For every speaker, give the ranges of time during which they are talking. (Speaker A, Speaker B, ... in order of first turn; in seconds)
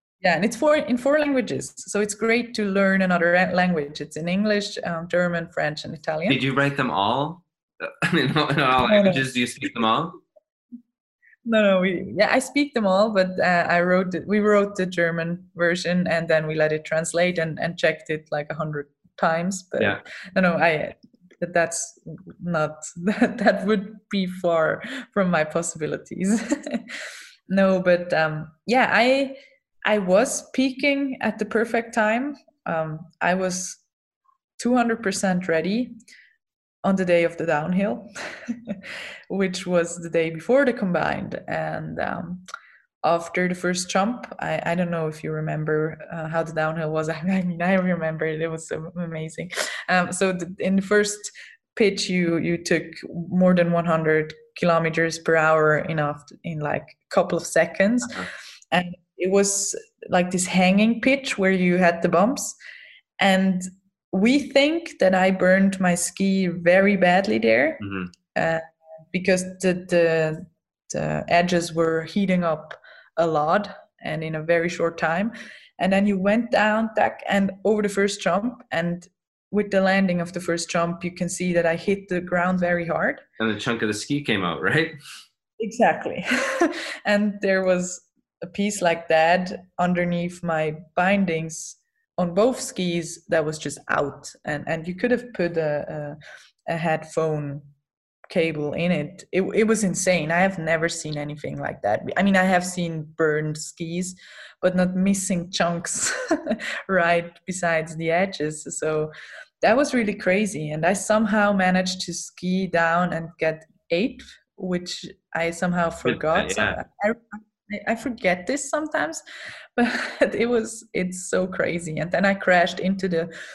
Speaker A: 0.2-6.4, 8.8-9.2, 11.5-27.0, 27.5-33.8, 34.6-35.9, 36.9-42.4, 43.0-58.2, 58.7-62.6, 63.2-67.8, 68.3-83.2, 85.6-97.7, 98.3-119.2, 119.8-123.3
Speaker B: 6.3-10.1, 67.8-68.1, 83.4-85.0, 116.0-116.8